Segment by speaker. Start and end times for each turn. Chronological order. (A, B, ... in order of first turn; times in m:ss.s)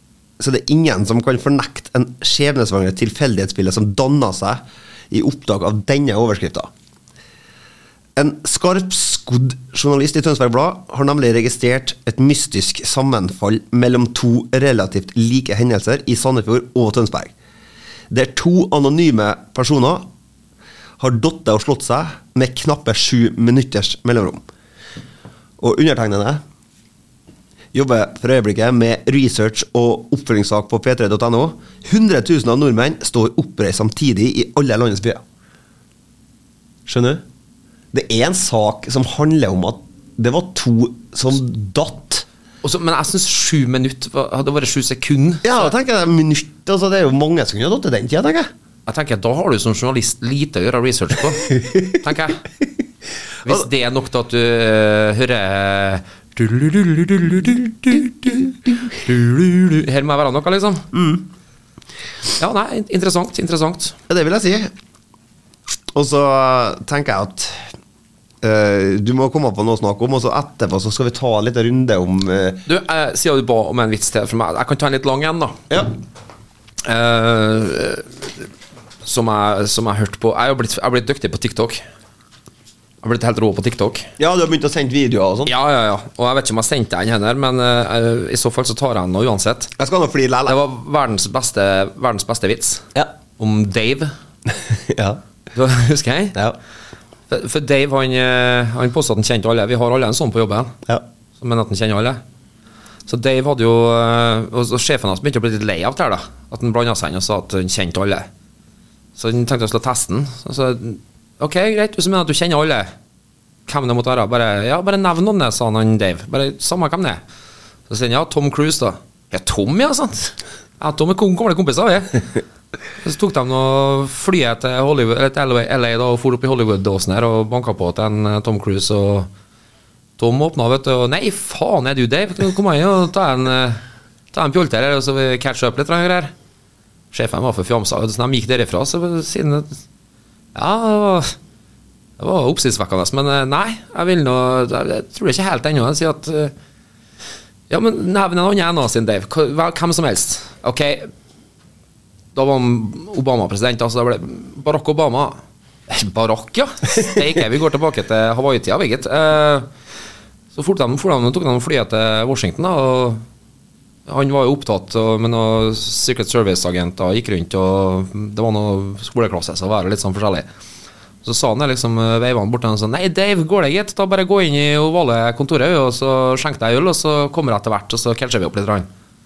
0:00.4-0:06.7 A
0:08.2-0:17.3 A
0:18.1-0:20.1 A
0:21.0-0:24.4 A
0:25.6-0:26.4 A
0:27.7-0:35.2 A
0:36.9-0:37.2 A
0:37.9-0:42.2 A
0:42.6-0:45.7 B
0:45.4-0:48.5 A
0:48.9-0:52.4 B
0:53.4-1:00.9 B
1:00.9-1:01.2 A
1:02.4-1:04.0 B
1:04.1-1:04.7 A
1:05.9-1:07.7 A
1:08.4-1:12.6 A
1:12.7-1:15.6 B
1:16.8-1:18.5 B
1:19.0-1:21.8 B
1:23.0-1:24.1 B
1:24.2-1:25.5 A
1:25.5-1:29.7 B
1:29.8-1:30.6 A
1:30.5-1:34.1 B
1:34.7-1:35.2 A
1:35.5-1:36.4 B
1:37.3-1:40.8 B
1:41.4-1:42.2 B
1:43.1-1:48.3 B
1:49.2-1:52.9 B
1:53.7-1:57.2 B
1:57.9-2:02.4 B
2:03.0-2:09.3 B
2:10.2-2:13.8 B
2:14.3-2:16.3 B
2:17.1-2:19.8 B
2:20.6-2:21.4 B
2:22.2-2:26.5 B
2:27.7-2:31.1 B
2:32.4-2:39.7 B
2:40.5-2:43.2 B
2:44.1-2:50.5 B
2:51.2-2:58.9 B